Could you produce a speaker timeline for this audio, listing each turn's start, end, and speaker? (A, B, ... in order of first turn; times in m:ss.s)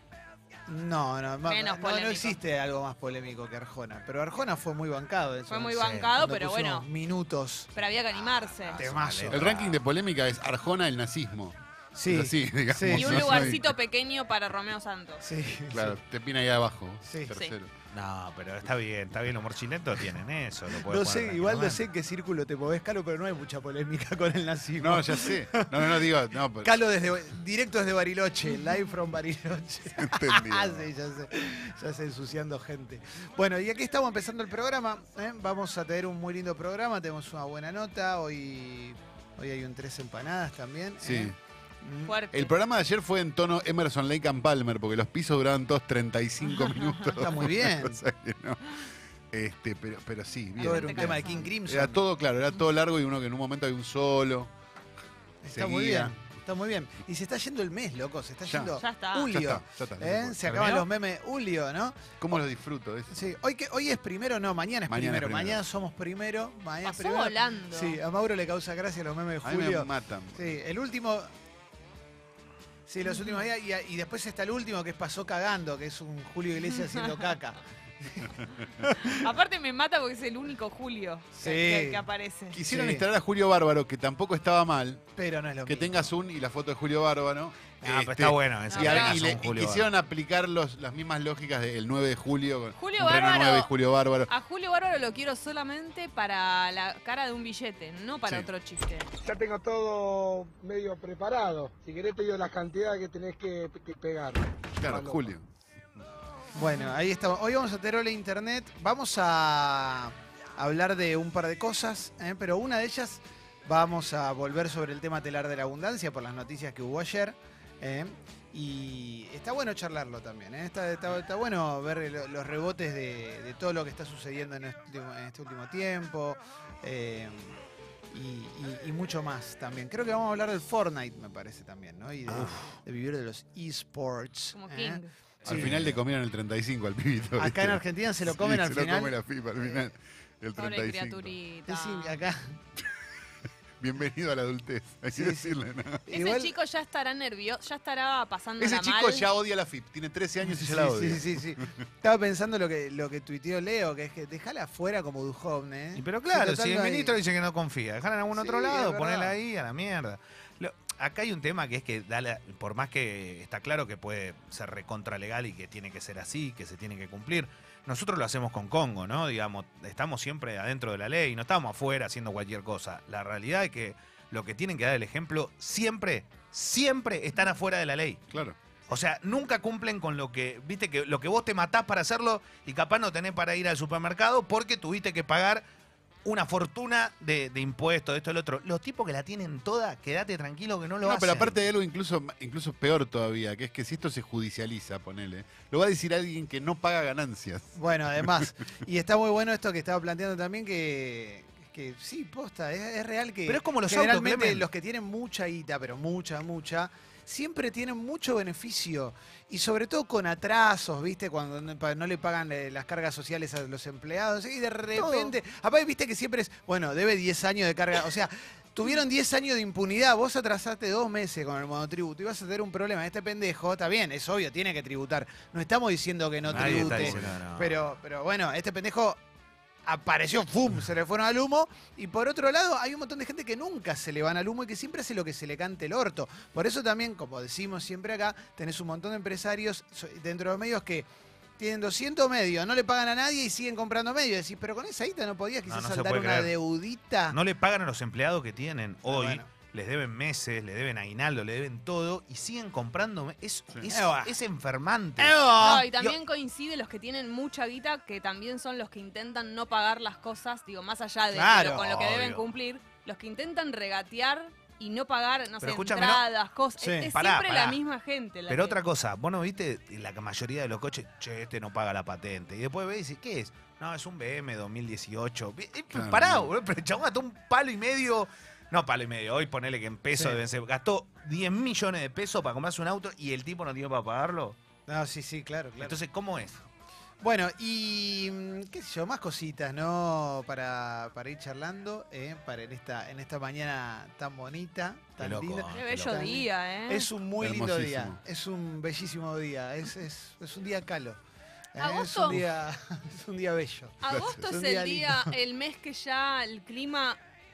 0:00.7-0:07.7 A
0:01.4-0:02.4 B
0:05.5-0:06.9 B
0:05.8-0:06.1 C
0:07.7-0:08.8 B
0:08.6-0:09.8 C
0:08.8-0:09.5 A
0:09.3-0:13.7 D
0:11.9-0:13.6 A
0:12.9-0:15.2 B
0:15.2-0:16.0 A
0:15.7-0:17.7 D
0:17.0-0:17.3 A
0:17.9-0:21.8 C
0:20.8-0:42.2 A
0:24.8-0:26.7 D
0:30.0-0:30.9 D
0:41.0-0:41.4 D
0:42.0-0:42.5 B
0:42.3-0:54.5 D
0:46.6-0:47.1 B
0:47.2-0:48.0 A
0:50.6-0:51.5 B
0:50.6-0:52.0 A
0:55.4-1:02.0 A
0:55.5-0:56.2 D
0:58.4-0:58.8 D
0:58.8-0:59.3 B
0:59.3-1:00.7 D
1:02.2-1:03.3 D
1:03.1-1:11.3 A
1:04.9-1:05.6 D
1:06.8-1:08.0 B
1:09.4-1:10.6 D
1:12.9-1:19.2 A
1:19.0-1:22.6 B
1:21.4-1:23.0 A
1:22.5-1:25.1 D
1:25.2-1:26.1 A
1:25.6-1:34.3 D
1:27.8-1:29.9 C
1:28.7-1:29.2 B
1:32.8-1:33.7 B
1:34.3-1:39.1 B
1:39.2-1:45.3 E
1:44.8-1:45.4 D
1:46.5-2:07.6 A
1:46.6-1:47.0 B
2:08.1-2:16.0 A
2:12.3-2:12.7 C
2:14.5-2:15.1 B
2:15.4-2:21.4 D
2:17.4-2:19.2 A
2:20.6-2:22.2 B
2:21.7-2:22.6 A
2:23.8-2:26.0 D
2:25.1-2:26.5 A
2:26.1-2:29.3 B
2:28.6-2:31.4 D
2:30.4-2:37.1 A
2:36.0-2:58.2 C
2:38.4-2:39.4 A
2:58.9-3:05.6 C
3:06.2-3:11.6 C
3:11.0-3:18.4 D
3:17.8-3:49.2 A
3:23.5-3:24.7 C
3:34.9-3:35.3 C
3:46.5-3:47.4 D
3:46.5-3:47.8 C
3:49.8-4:01.1 A
4:01.6-4:07.4 A
4:05.7-4:06.5 C
4:07.3-4:16.2 C
4:09.1-4:09.5 A
4:13.8-4:14.3 A
4:15.2-4:15.9 A
4:15.5-4:28.8 B
4:21.3-4:21.8 A
4:21.7-4:22.5 C
4:25.6-4:26.2 C
4:26.8-4:27.1 A
4:27.1-4:27.8 C
4:28.5-4:44.6 C
4:35.9-4:36.5 D
4:40.1-4:40.4 A
4:44.9-4:46.0 A
4:45.8-4:46.6 C
4:47.2-5:01.2 A
4:55.2-4:56.3 C
4:55.7-4:57.1 B
4:57.4-4:58.2 D
5:01.7-5:05.3 A
5:01.8-5:02.4 B
5:04.0-5:07.2 B
5:04.1-5:04.4 D